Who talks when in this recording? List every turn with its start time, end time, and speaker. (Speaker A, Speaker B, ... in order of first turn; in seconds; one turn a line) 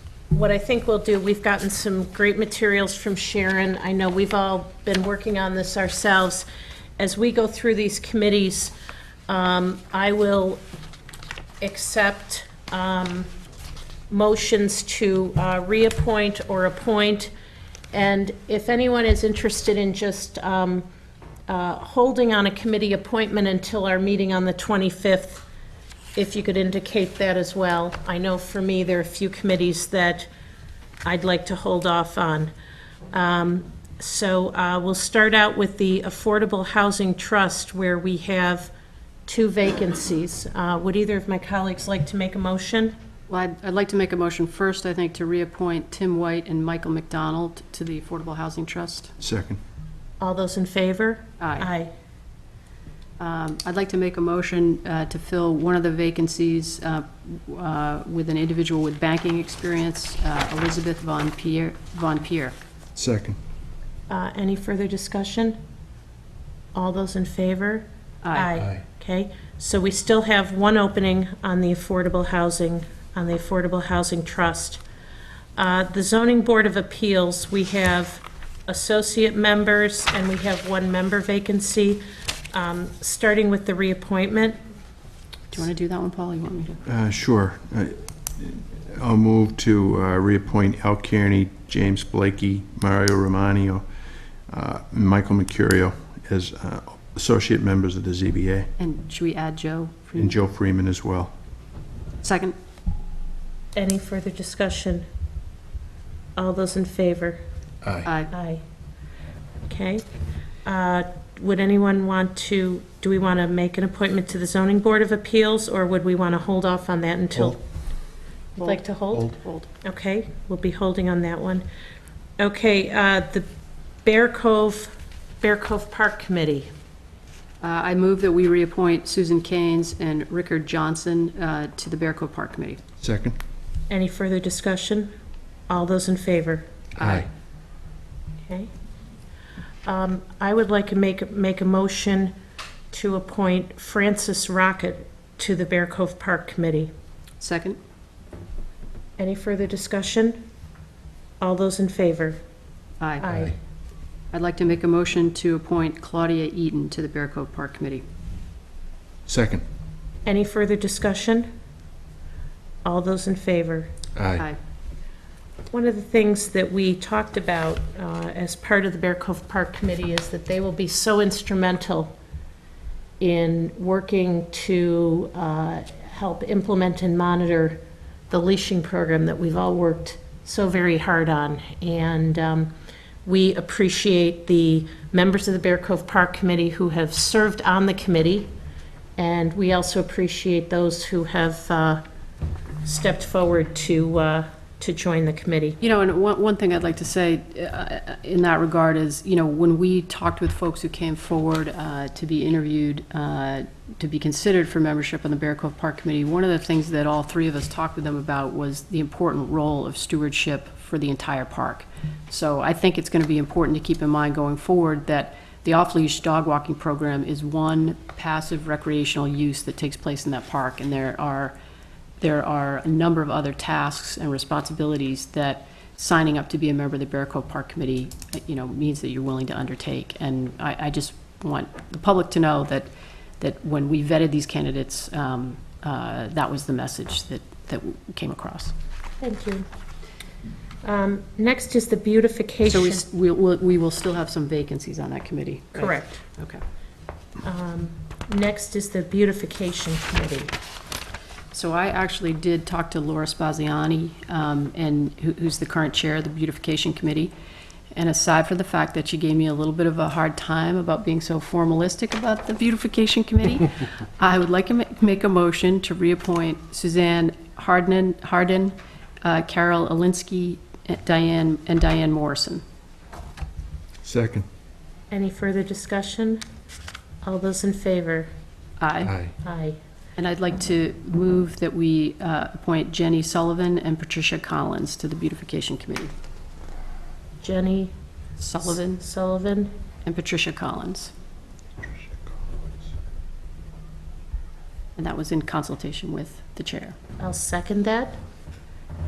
Speaker A: 0.3-6.5
Speaker A: 7.0-8.7
Speaker A: 9.3-10.6
Speaker A: 11.6-13.3
Speaker A: 14.1-17.3
Speaker A: 17.9-20.9
Speaker A: 21.5-25.4
Speaker A: 26.1-30.3
Speaker A: 31.0-32.5
Speaker A: 33.1-38.7
Speaker A: 39.2-43.0
Speaker B: 43.3-49.1
Speaker C: 49.2-49.6
Speaker A: 50.2-51.9
Speaker B: 51.4-51.7
Speaker B: 53.2-62.5
Speaker C: 62.9-63.4
Speaker A: 64.1-65.6
Speaker A: 66.7-74.8
Speaker B: 68.2-68.5
Speaker A: 75.5-84.6
Speaker B: 85.5-86.8
Speaker C: 86.8-93.8
Speaker C: 94.5-98.7
Speaker B: 98.8-100.3
Speaker C: 100.1-101.3
Speaker B: 102.2-102.5
Speaker A: 103.7-105.0
Speaker A: 106.3-107.4
Speaker C: 107.8-108.1
Speaker B: 108.0-108.3
Speaker A: 108.3-108.6
Speaker A: 109.7-110.0
Speaker A: 110.6-117.6
Speaker A: 118.5-121.6
Speaker B: 118.6-119.7
Speaker A: 122.4-123.5
Speaker A: 124.0-126.7
Speaker B: 127.6-132.8
Speaker C: 133.0-133.3
Speaker A: 133.9-135.1
Speaker A: 135.7-136.7
Speaker C: 137.0-137.3
Speaker B: 137.0-137.3
Speaker A: 138.4-138.7
Speaker A: 139.8-142.3
Speaker A: 142.9-146.9
Speaker B: 147.4-147.8
Speaker A: 149.2-150.4
Speaker A: 151.4-152.4
Speaker A: 153.2-153.5
Speaker C: 153.3-153.5
Speaker B: 154.3-158.0
Speaker C: 159.3-159.6
Speaker A: 160.2-161.5
Speaker A: 162.8-163.9
Speaker C: 164.2-164.4
Speaker A: 165.7-172.1
Speaker A: 173.2-182.7
Speaker A: 183.2-188.5
Speaker A: 189.2-192.0
Speaker A: 192.8-195.8
Speaker B: 195.8-221.6
Speaker B: 222.2-232.9
Speaker B: 233.4-238.7
Speaker A: 239.2-239.7
Speaker A: 240.8-243.0
Speaker B: 242.7-246.6
Speaker A: 245.8-246.2
Speaker A: 247.4-250.5
Speaker B: 251.5-257.3
Speaker B: 257.9-272.6
Speaker C: 274.0-274.4
Speaker A: 275.1-276.4
Speaker A: 277.2-278.3
Speaker B: 278.8-279.1
Speaker C: 279.0-279.3
Speaker A: 279.4-279.8
Speaker B: 280.2-286.1
Speaker A: 287.4-287.9
Speaker B: 288.4-289.0
Speaker A: 288.6-289.7
Speaker B: 290.0-291.1
Speaker B: 295.0-297.0
Speaker A: 297.2-298.2